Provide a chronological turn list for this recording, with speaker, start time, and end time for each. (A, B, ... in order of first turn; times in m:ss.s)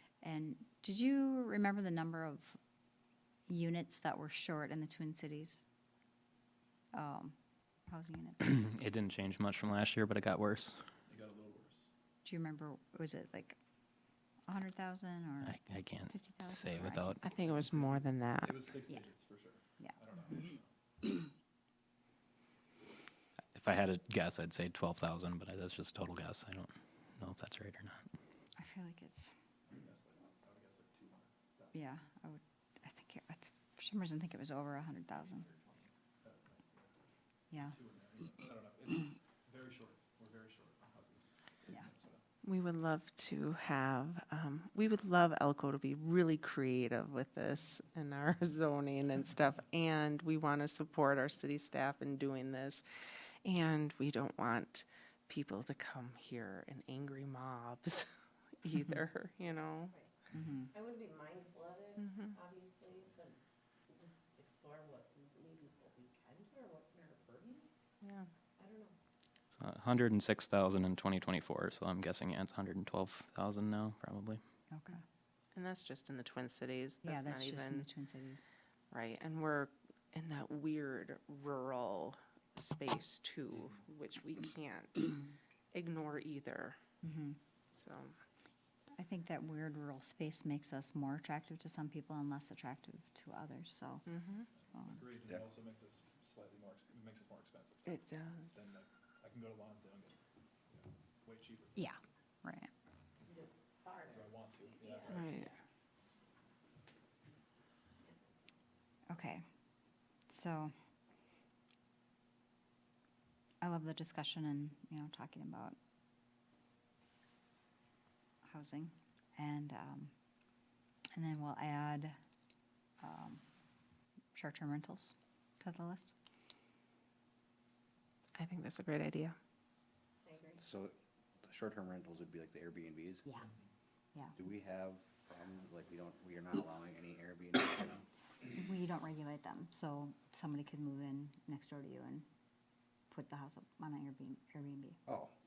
0:00.2-0:02.6 A
0:03.5-0:05.6 A
0:06.9-0:07.3 A
0:07.9-0:08.6 A
0:08.4-0:10.8 B
0:11.0-0:11.9 C
0:12.2-0:13.6 A
0:14.5-0:15.6 A
0:15.4-0:17.2 B
0:16.1-0:17.2 A
0:17.2-0:18.6 D
0:17.4-0:20.7 C
0:23.5-0:28.0 B
0:28.6-0:29.3 A
0:29.7-0:31.8 C
0:31.7-0:35.5 A
0:35.3-0:37.0 C
0:37.5-0:42.2 C
0:42.4-0:52.8 D
0:53.4-0:58.1 D
0:58.6-0:59.9 D
1:00.3-1:00.7 A
1:00.7-1:03.4 E
1:02.0-1:02.3 D
1:03.9-1:07.7 E
1:08.0-1:08.3 D
1:08.6-1:09.0 E
1:09.5-1:14.4 B
1:14.7-1:15.0 A
1:15.5-1:17.9 D
1:17.0-1:18.5 A
1:18.9-1:25.2 D
1:25.7-1:26.8 D
1:27.0-1:27.4 A
1:27.7-1:28.2 D
1:29.0-1:34.0 A
1:34.0-1:34.4 D
1:34.7-1:40.2 C
1:37.8-1:38.7 D
1:40.7-1:41.9 C
1:41.8-1:42.7 A
1:43.2-1:45.3 E
1:44.0-1:45.5 C
1:45.1-1:45.5 D
1:49.1-1:49.4 A
1:50.3-1:50.7 A
1:53.6-1:55.8 A
1:58.4-2:00.1 A
2:01.1-2:02.2 A
2:03.0-2:03.4 A
2:04.3-2:06.1 A
2:08.3-2:09.4 D
2:10.2-2:10.6 E
2:10.6-2:13.3 F
2:14.3-2:18.1 F
2:18.5-2:22.3 A
2:23.1-2:25.0 A
2:25.1-2:25.3 F